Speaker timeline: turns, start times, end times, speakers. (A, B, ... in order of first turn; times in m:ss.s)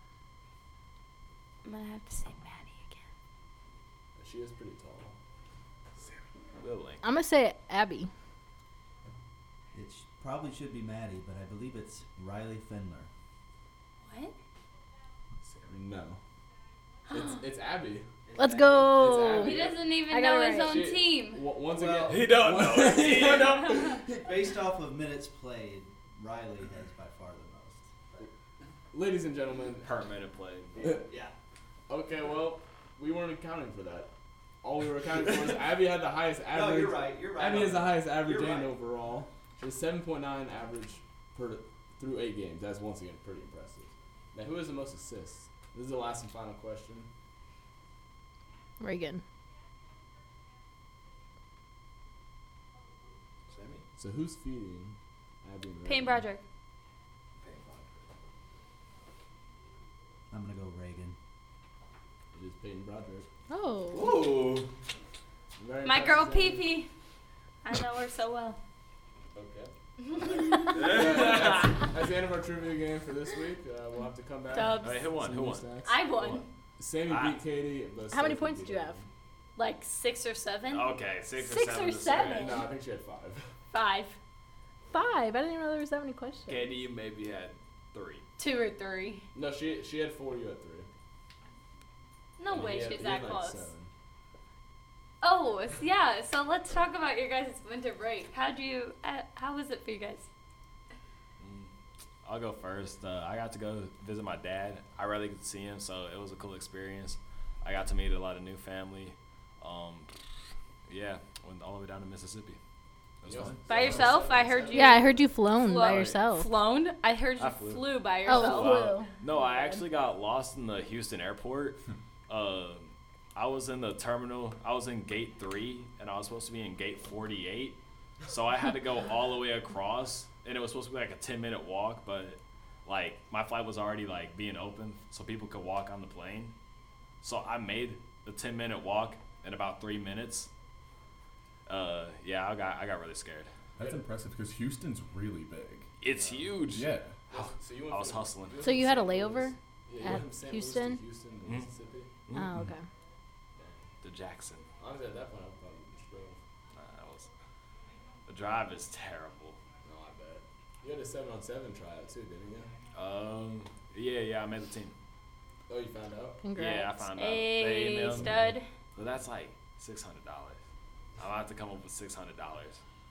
0:01.6-0:03.0 A
0:04.1-0:05.1 B
0:06.6-0:07.0 C
0:07.0-0:08.1 D
0:09.7-0:13.1 E
0:14.0-0:14.3 A
0:15.4-0:15.8 F
0:15.7-0:16.2 B
0:17.1-0:17.4 A
0:17.1-0:18.0 B
0:18.3-0:19.0 E
0:18.4-0:20.8 D
0:18.9-0:19.9 B
0:19.4-0:21.4 A
0:20.6-0:24.0 B
0:21.7-0:22.3 E
0:22.1-0:23.8 C
0:23.2-0:28.3 E
0:28.9-0:29.9 B
0:29.8-0:30.7 C
0:30.7-0:31.3 E
0:31.9-0:34.1 B
0:34.6-0:47.1 B
0:36.5-0:38.7 E
0:48.8-0:49.2 D
0:53.5-0:53.8 C
0:53.9-0:56.3 B
0:55.8-0:56.4 A
0:57.4-0:58.0 C
1:00.3-1:01.2 E
1:02.3-1:03.3 B
1:03.5-1:04.1 D
1:03.9-1:04.7 C
1:05.6-1:06.7 B
1:05.8-1:06.9 A
1:07.6-1:08.6 A
1:09.3-1:19.1 B
1:10.4-1:10.7 A
1:10.6-1:11.9 C
1:14.5-1:15.0 A
1:14.8-1:16.4 C
1:15.8-1:16.4 A
1:17.1-1:17.4 C
1:18.1-1:19.0 D
1:19.6-1:22.6 A
1:20.7-1:22.5 C
1:22.2-1:23.5 B
1:23.7-1:24.2 A
1:24.9-1:26.8 D
1:26.5-1:28.2 C
1:28.4-1:29.2 A
1:29.3-1:30.9 B
1:32.4-1:33.7 A
1:32.5-1:33.9 B
1:35.2-1:40.3 A
1:41.4-1:41.7 C
1:42.2-1:50.1 C
1:50.9-1:52.6 C
1:53.2-1:54.0 C
1:53.3-1:54.1 F
1:53.3-1:55.3 B
1:53.7-1:58.9 A
1:54.7-1:56.5 D
1:57.4-2:16.5 C
1:58.2-1:59.8 D
2:17.2-2:20.5 C
2:21.7-2:23.5 C
2:23.8-2:26.0 F
2:23.8-2:24.0 B
2:26.0-2:28.6 C
2:26.1-2:26.6 B
2:26.6-2:27.3 F
2:27.3-2:32.2 B
2:28.6-2:31.0 D
2:32.3-2:32.8 D
2:33.6-2:33.8 B
2:34.0-2:34.6 C
2:34.8-2:36.4 B
2:36.7-2:37.3 C
2:38.3-2:39.6 C
2:39.8-2:42.7 B
2:42.9-2:44.9 C
2:45.7-2:46.4 B
2:46.4-2:47.1 D
2:46.6-2:50.6 C
2:47.2-2:48.6 A
2:51.2-2:52.8 C